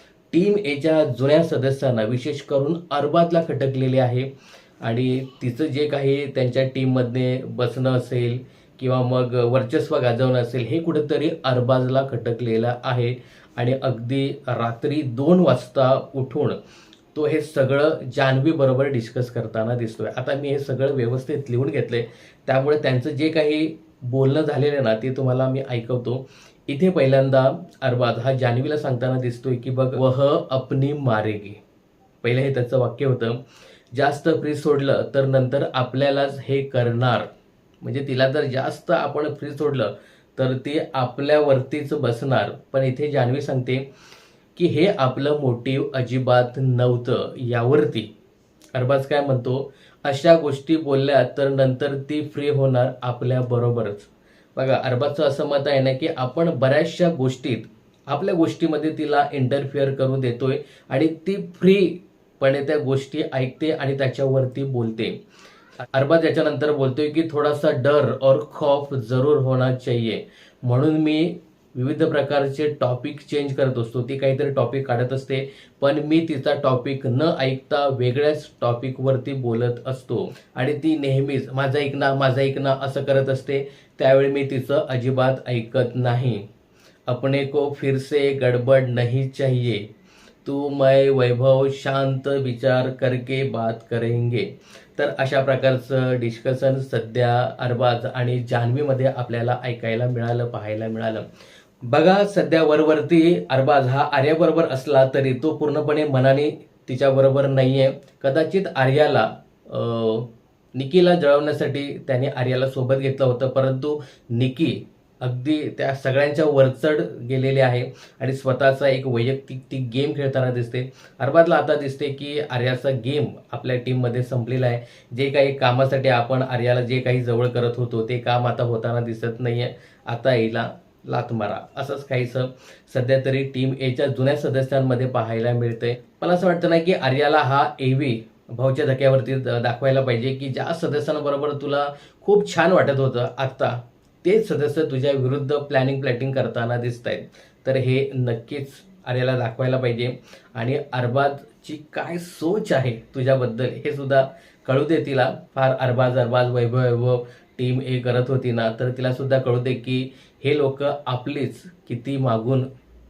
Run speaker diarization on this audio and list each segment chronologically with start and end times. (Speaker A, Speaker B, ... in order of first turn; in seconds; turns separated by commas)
Speaker A: 0.3-4.3, Speaker A: 4.8-16.6, Speaker A: 17.1-31.6, Speaker A: 32.2-33.4, Speaker A: 33.9-37.3, Speaker A: 37.8-43.9, Speaker A: 44.5-48.1, Speaker A: 48.8-65.2, Speaker A: 65.9-86.5, Speaker A: 87.1-89.9, Speaker A: 90.5-101.3, Speaker A: 101.9-162.7